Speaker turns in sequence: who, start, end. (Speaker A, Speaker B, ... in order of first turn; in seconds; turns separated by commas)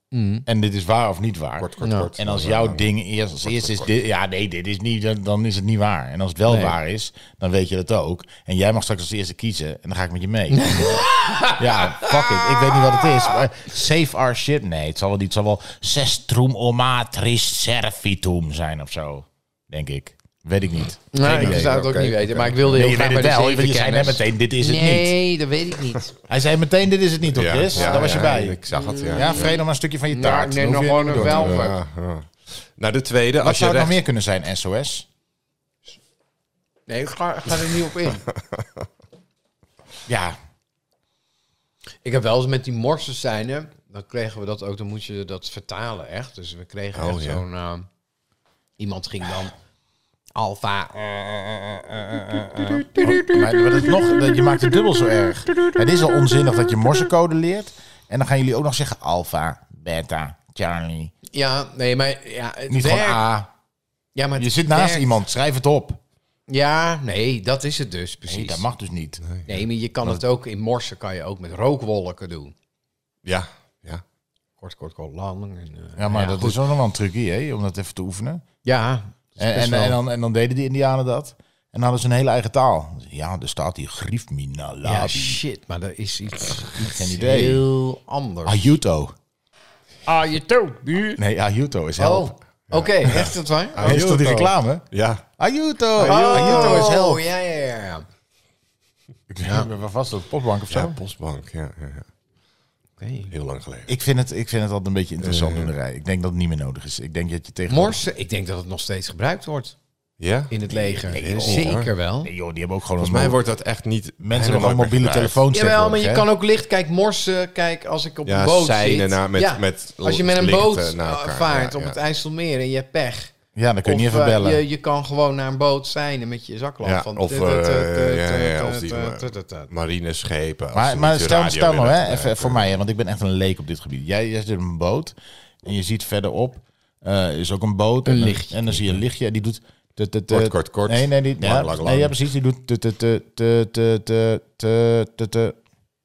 Speaker A: 0.1-0.5, Speaker B: 0.5-21.8, Speaker C: 1.6-2.9, Speaker A: 1.8-2.1, Speaker C: 3.4-3.9, Speaker A: 6.5-6.8, Speaker A: 10.5-13.1, Speaker A: 21.1-26.1, Speaker C: 21.2-22.7, Speaker B: 22.7-25.1, Speaker B: 26.3-28.6, Speaker C: 27.3-29.6, Speaker A: 27.8-29.6, Speaker B: 29.1-31.6, Speaker A: 30.1-31.8, Speaker C: 31.1-34.0, Speaker B: 33.4-35.1, Speaker A: 36.9-38.3, Speaker B: 40.1-40.4, Speaker A: 42.0-47.9, Speaker C: 47.0-47.4, Speaker A: 48.8-49.5, Speaker A: 50.4-51.4, Speaker A: 51.9-53.9, Speaker B: 53.0-61.1, Speaker A: 61.3-63.2, Speaker B: 62.7-63.5, Speaker A: 64.2-65.2, Speaker B: 64.4-66.0, Speaker A: 66.5-68.7, Speaker B: 68.3-69.2, Speaker C: 69.3-69.5, Speaker A: 69.5-72.5, Speaker C: 73.2-74.0, Speaker A: 74.6-76.6, Speaker B: 76.0-78.4, Speaker A: 78.6-80.0, Speaker B: 79.4-85.4, Speaker A: 84.8-88.8, Speaker B: 86.8-87.7, Speaker B: 88.5-89.1, Speaker A: 90.1-91.2, Speaker B: 91.2-92.3, Speaker A: 92.0-94.5, Speaker C: 92.7-94.1, Speaker B: 93.1-94.8, Speaker C: 94.9-95.2, Speaker B: 95.4-97.2, Speaker C: 96.0-96.9, Speaker A: 96.0-98.0, Speaker B: 99.3-101.0, Speaker C: 100.7-102.1, Speaker A: 103.0-103.3, Speaker C: 103.3-103.9, Speaker B: 103.9-108.0, Speaker C: 105.2-105.7, Speaker A: 107.7-109.8, Speaker C: 110.2-111.9, Speaker A: 110.5-112.3, Speaker B: 111.0-113.4, Speaker C: 113.0-115.4, Speaker B: 114.2-116.3, Speaker A: 115.5-123.3, Speaker C: 118.2-122.0, Speaker B: 123.5-124.6, Speaker A: 123.8-129.7, Speaker C: 126.8-132.7, Speaker B: 130.7-145.6, Speaker A: 138.1-139.0, Speaker C: 140.3-142.2